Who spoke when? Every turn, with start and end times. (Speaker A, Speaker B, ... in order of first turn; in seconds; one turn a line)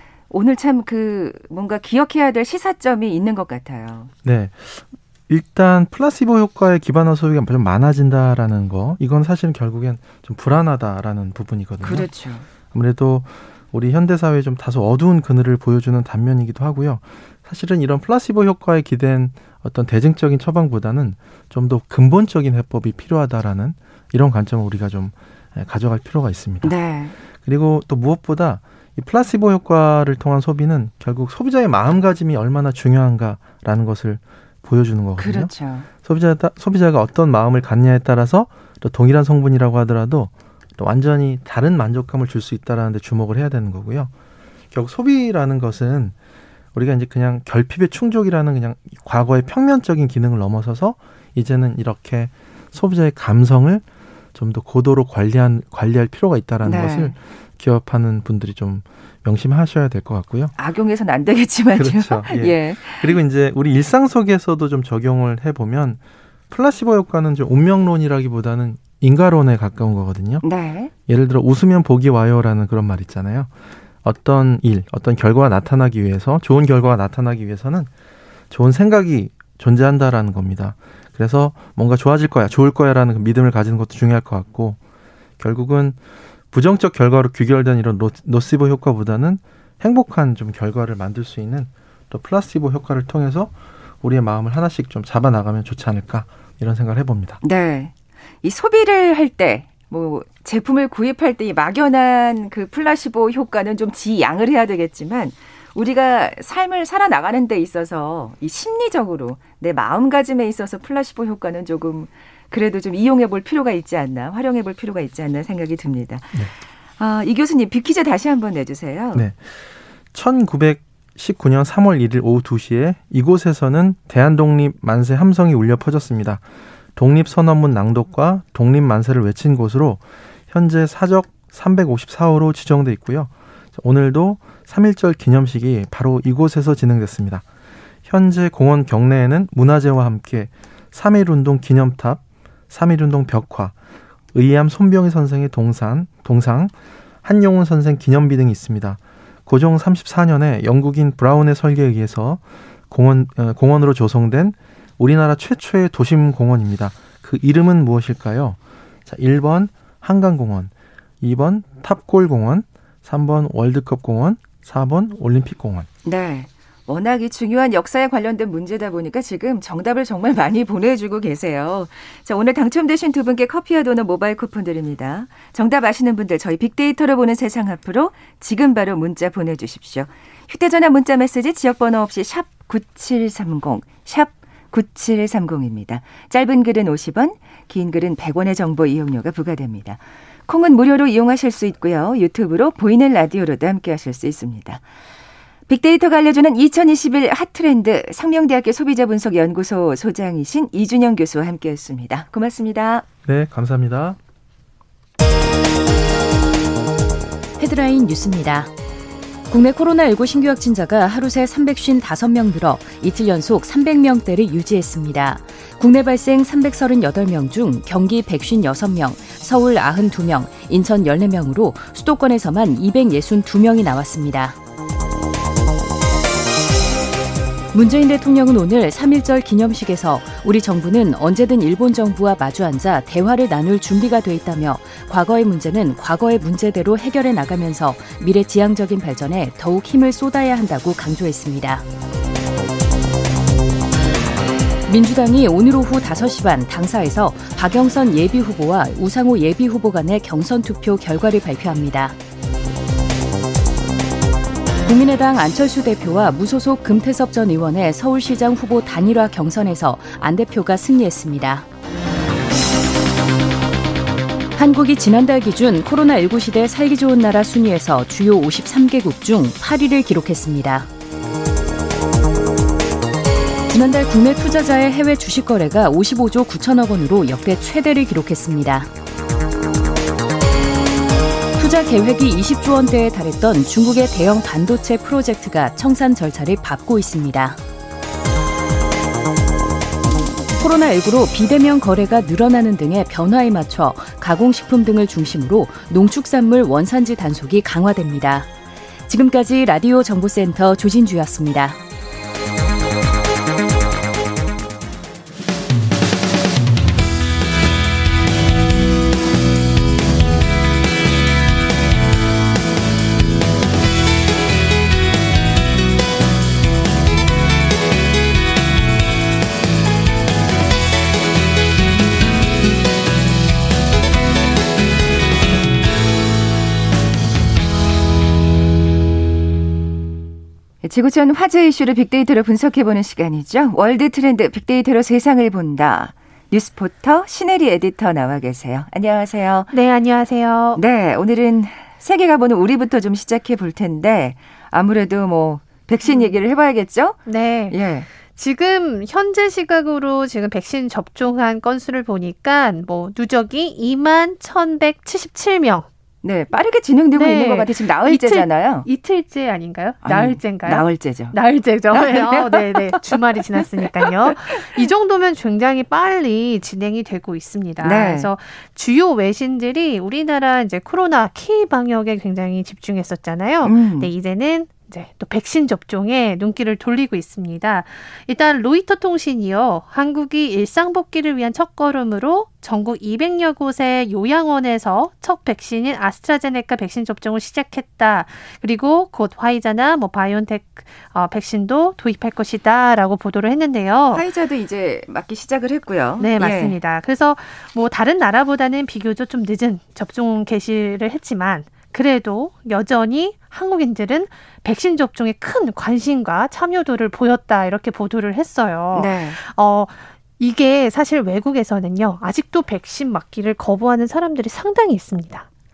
Speaker A: 0.3-4.1
Speaker B: 4.2-12.1
Speaker A: 11.8-12.4
Speaker B: 12.7-26.8
Speaker A: 26.6-27.1
Speaker B: 27.4-35.5
Speaker A: 35.2-35.9
Speaker B: 36.0-44.1
Speaker B: 44.7-46.1
Speaker B: 46.7-53.8
Speaker B: 54.3-60.5
Speaker A: 56.6-57.1
Speaker A: 60.6-63.2
Speaker B: 61.8-70.4
Speaker A: 70.4-70.9
Speaker B: 71.1-73.5
Speaker B: 74.0-77.9
Speaker B: 78.5-84.8
Speaker B: 85.4-86.0
Speaker B: 86.5-97.4
Speaker A: 97.4-116.4
Speaker A: 117.0-119.2
Speaker B: 119.1-119.5
Speaker B: 120.1-126.4
Speaker B: 127.0-137.4
Speaker B: 138.1-143.7
Speaker B: 144.3-146.7
Speaker B: 147.2-165.9
Speaker A: 166.0-194.8
Speaker A: 195.7-203.0
Speaker B: 203.2-204.2
Speaker C: 207.6-208.7
Speaker C: 209.5-224.6
Speaker C: 227.7-241.8
Speaker C: 244.8-252.2
Speaker C: 254.8-261.6
Speaker C: 264.5-270.9
Speaker C: 273.7-278.9
Speaker C: 281.6-287.6
Speaker C: 290.6-298.5
Speaker C: 299.1-301.8
Speaker A: 330.8-339.7
Speaker D: 339.7-340.8
Speaker A: 340.8-348.1
Speaker D: 346.0-346.4
Speaker D: 347.2-347.8
Speaker D: 348.3-355.9
Speaker A: 356.2-358.9
Speaker D: 357.1-394.2
Speaker A: 360.0-361.4
Speaker A: 361.9-364.8
Speaker A: 367.8-368.3
Speaker A: 373.6-374.1
Speaker A: 394.1-396.8
Speaker D: 396.2-415.4
Speaker A: 408.9-409.4